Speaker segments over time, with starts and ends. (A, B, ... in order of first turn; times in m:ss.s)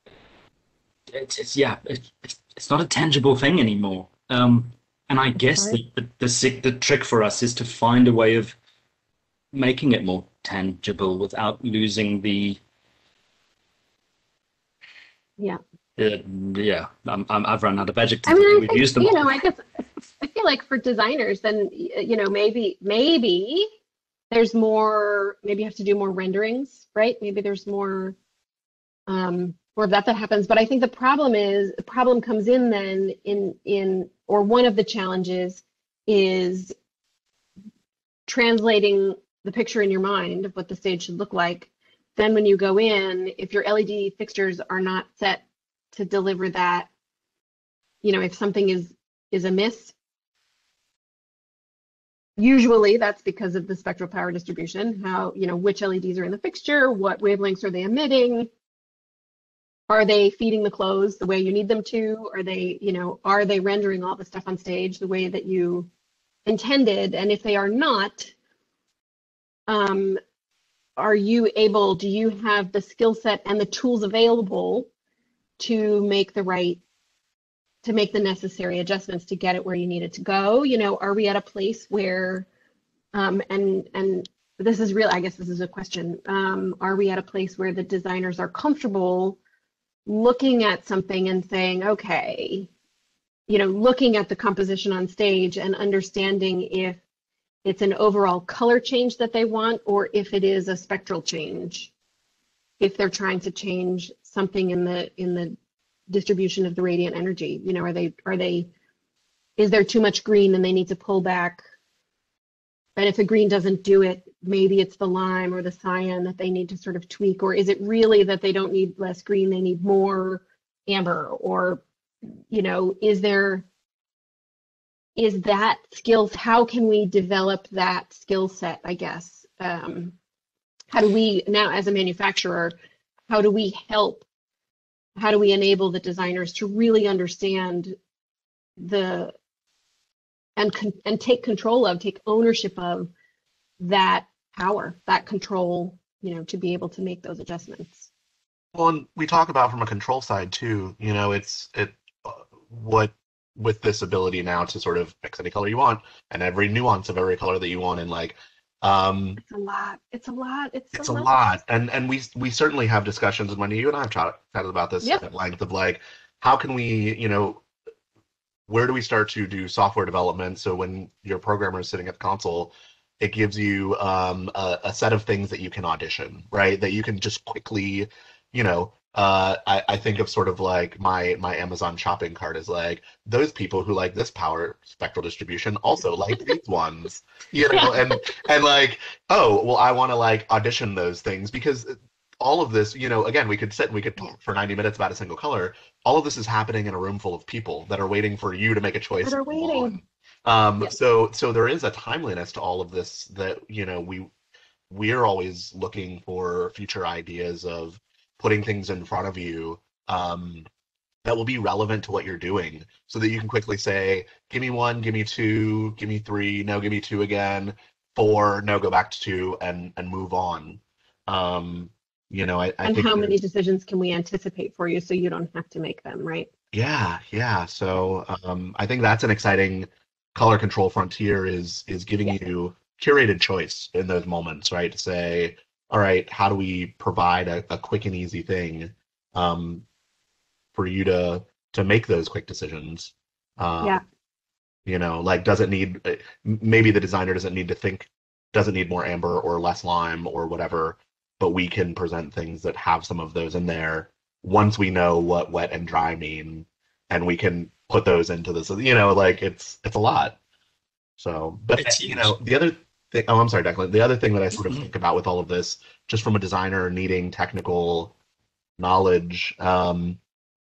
0:01.1-0:08.6 A
0:09.5-0:12.6 A
0:16.0-0:19.4 A
0:18.3-0:19.6 B
0:20.2-0:23.7 B
0:24.3-0:28.2 B
0:29.1-0:36.7 B
0:38.3-0:46.9 B
0:48.0-0:49.9 B
0:52.4-0:58.5 B
0:59.9-1:05.9 B
1:06.5-1:08.3 B
1:09.7-1:10.2 B
1:11.0-1:14.9 B
1:15.6-1:16.8 B
1:17.8-1:22.5 B
1:23.1-1:29.4 B
1:30.1-1:32.7 B
1:33.5-1:37.0 B
1:37.6-1:41.9 B
1:42.8-1:45.6 B
1:46.1-1:48.7 B
1:49.6-1:51.6 B
1:53.0-2:01.8 B
2:02.5-2:03.7 B
2:05.2-2:10.2 B
2:10.9-2:12.7 B
2:13.3-2:14.2 B
2:15.2-2:18.0 B
2:18.8-2:19.4 B
2:20.6-2:23.1 B
2:23.8-2:28.1 B
2:28.7-2:39.4 C
2:39.4-2:41.4 B
2:40.9-2:47.6 C
2:48.7-3:24.3 C
3:19.2-3:20.0 B
3:24.9-3:30.7 C
3:31.2-3:43.3 C
3:42.8-3:46.5 B
3:46.7-3:59.8 C
4:00.7-4:04.0 C
4:04.9-4:20.4 C
4:21.2-4:28.1 C
4:21.8-4:22.4 A
4:28.8-4:30.2 C